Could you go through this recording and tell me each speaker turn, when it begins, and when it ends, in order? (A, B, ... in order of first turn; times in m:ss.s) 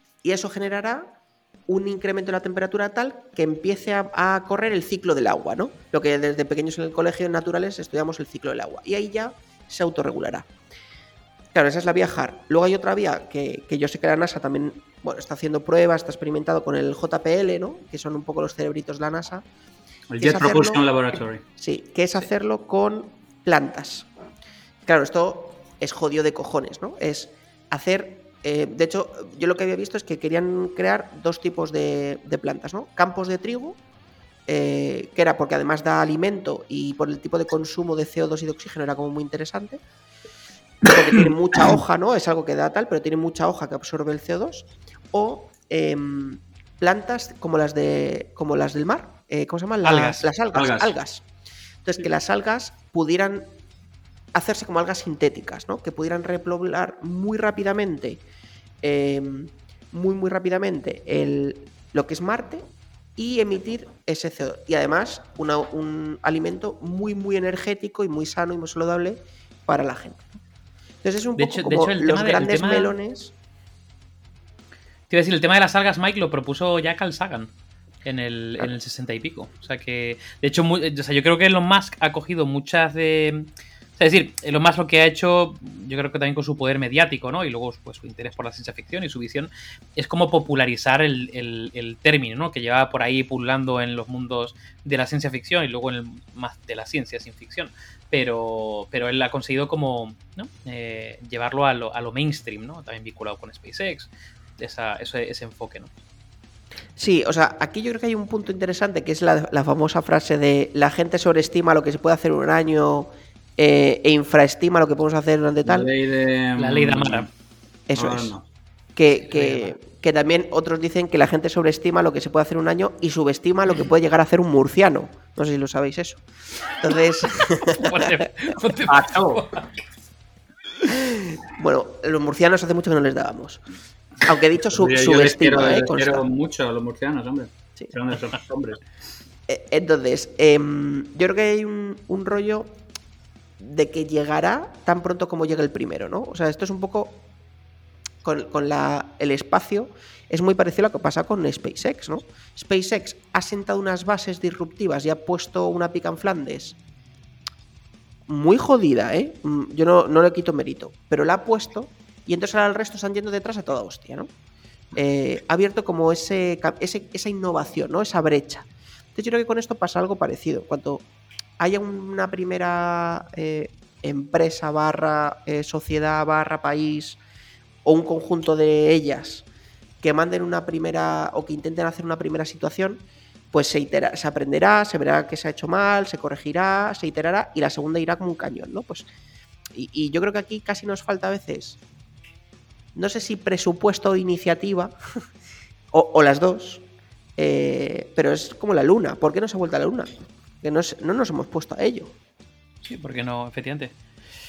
0:00.2-0:01.2 A
0:01.7-0:10.5 A
0:11.5-0:19.4 A
0:20.1-0:21.4 B
0:20.2-0:20.8 A
0:21.6-0:24.1 A
0:24.8-0:33.8 A
0:34.5-0:39.8 A
0:40.8-0:51.2 A
0:49.8-0:50.2 C
0:50.5-0:50.9 B
0:51.8-0:53.5 A
0:54.3-0:58.2 A
0:58.8-1:10.4 A
1:11.0-1:13.3 A
1:11.4-1:12.9 C
1:15.1-1:17.5 C
1:18.0-1:45.9 C
1:47.0-1:55.9 A
1:55.7-1:57.3 B
1:56.6-1:57.3 C
1:57.9-1:58.3 A
1:58.0-1:58.4 B
1:59.0-2:08.2 A
2:07.8-2:09.8 C
2:08.9-2:09.5 B
2:10.9-2:13.6 A
2:14.2-2:16.2 A
2:14.7-2:18.8 B
2:19.5-2:22.8 A
2:23.6-2:27.2 A
2:28.2-2:36.8 A
2:38.3-2:44.3 A
2:44.9-2:51.0 A
2:51.6-2:57.2 A
2:57.8-2:59.5 A
3:00.0-3:09.1 A
3:09.8-3:11.8 A
3:13.0-3:15.0 A
3:15.9-3:16.8 A
3:17.4-3:20.1 A
3:20.6-3:22.2 A
3:22.9-3:23.9 C